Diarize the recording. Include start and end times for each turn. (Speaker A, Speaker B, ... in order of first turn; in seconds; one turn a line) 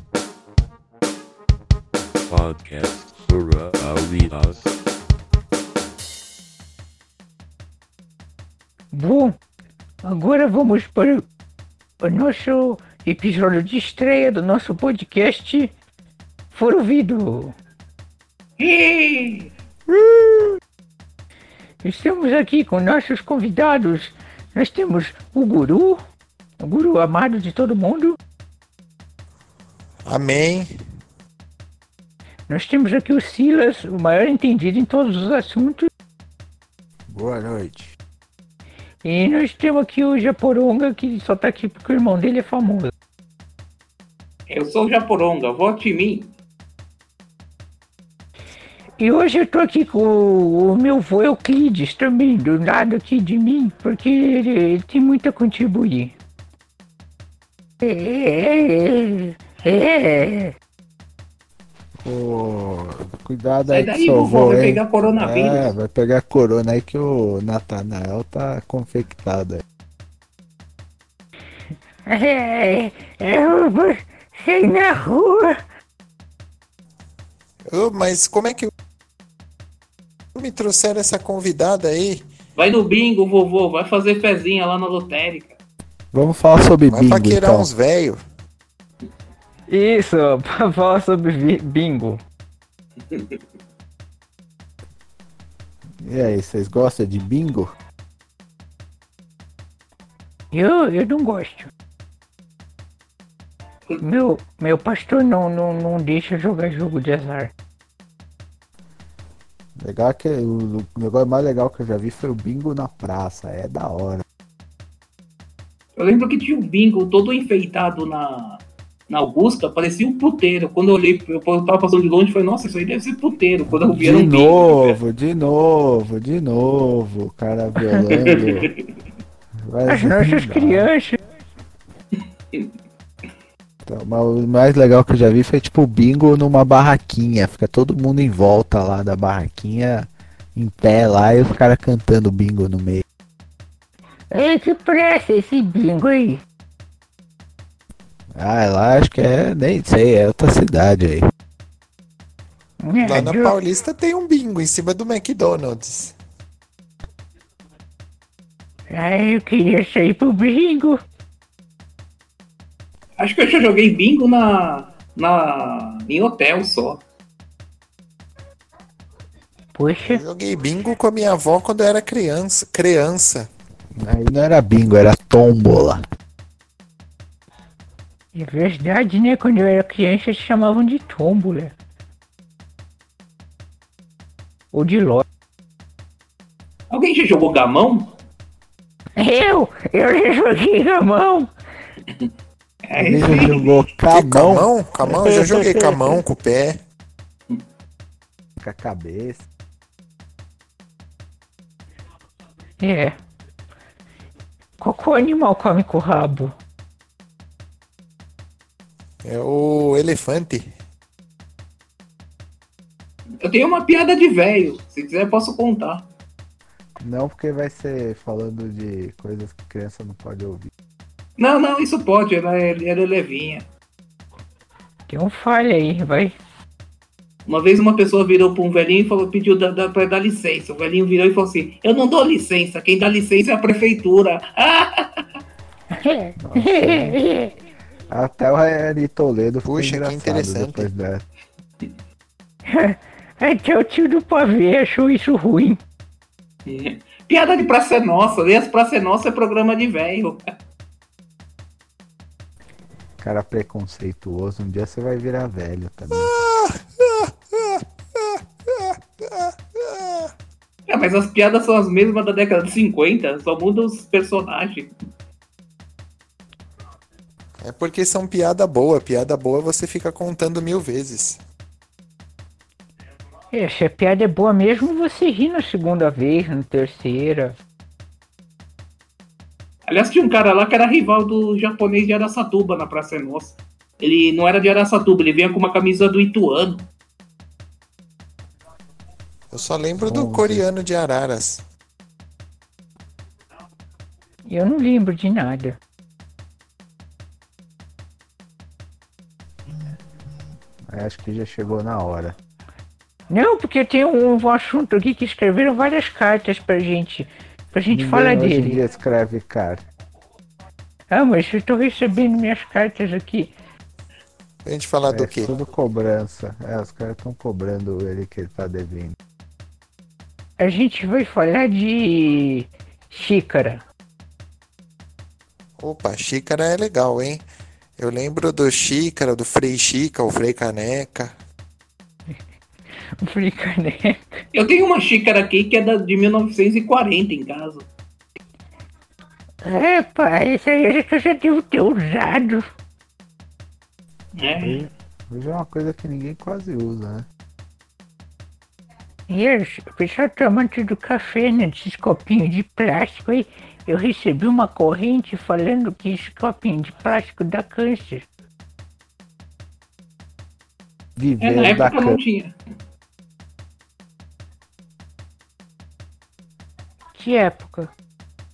Speaker A: 2.3-4.7
Speaker B: 8.9-9.4
Speaker B: 10.0-11.3
Speaker B: 12.0-15.7
Speaker B: 16.5-17.6
Speaker C: 18.6-19.5
Speaker B: 21.8-26.0
Speaker B: 26.6-28.2
Speaker D: 30.1-30.7
Speaker B: 32.5-35.9
Speaker E: 37.1-38.0
Speaker B: 39.0-42.9
Speaker C: 44.5-46.3
Speaker B: 49.0-56.1
Speaker B: 57.8-60.5
Speaker E: 62.0-69.6
Speaker C: 63.7-65.7
Speaker B: 72.1-75.6
Speaker D: 77.7-78.7
Speaker D: 80.3-82.2
Speaker C: 82.6-85.6
Speaker E: 86.1-87.7
Speaker D: 86.9-88.2
Speaker B: 89.7-92.2
Speaker C: 93.1-93.3
Speaker E: 96.0-97.8
Speaker B: 100.5-101.7
Speaker B: 104.0-107.5
Speaker E: 109.8-114.2
Speaker C: 116.0-125.0
Speaker E: 123.7-128.7
Speaker C: 128.3-128.7
Speaker E: 129.7-130.9
Speaker B: 129.8-131.2
Speaker E: 133.9-143.0
Speaker B: 144.3-146.4
Speaker E: 148.3-151.2
Speaker B: 152.8-153.6
Speaker D: 153.0-156.2
Speaker B: 158.9-161.0
Speaker C: 163.2-167.0
Speaker B: 169.8-170.2
Speaker D: 170.0-173.5
Speaker E: 174.0-176.0
Speaker B: 178.3-181.8
Speaker B: 184.7-185.2
Speaker C: 186.9-188.1
Speaker B: 189.2-191.5
Speaker C: 192.9-193.7
Speaker E: 192.9-194.7
Speaker D: 194.1-196.8
Speaker B: 195.1-196.2
Speaker E: 198.6-199.5
Speaker B: 202.8-203.2
Speaker B: 204.8-206.5
Speaker D: 209.2-210.7
Speaker C: 213.4-216.1
Speaker E: 217.0-220.7
Speaker C: 221.4-223.7
Speaker B: 225.1-226.3
Speaker C: 227.5-235.2
Speaker B: 235.9-237.5
Speaker E: 236.4-237.2
Speaker E: 238.1-241.2
Speaker D: 239.7-240.9
Speaker B: 242.7-245.8
Speaker C: 246.7-250.4
Speaker E: 253.2-256.3
Speaker D: 256.1-260.3
Speaker C: 260.9-264.9
Speaker D: 267.6-271.4
Speaker B: 273.5-277.6
Speaker C: 279.9-286.9
Speaker D: 289.5-291.6
Speaker E: 290.0-290.7
Speaker B: 294.5-295.8
Speaker E: 300.9-302.4
Speaker B: 303.3-308.8
Speaker E: 307.9-309.9
Speaker B: 311.1-313.5
Speaker D: 314.6-315.5
Speaker E: 315.1-319.2
Speaker B: 320.6-323.8
Speaker D: 325.8-327.4
Speaker D: 328.0-331.4
Speaker B: 333.2-334.4
Speaker C: 334.5-337.9
Speaker B: 339.6-342.7
Speaker C: 344.4-344.9
Speaker E: 344.6-347.3
Speaker B: 349.3-358.3
Speaker E: 361.2-362.2
Speaker C: 361.4-362.6
Speaker B: 367.2-367.9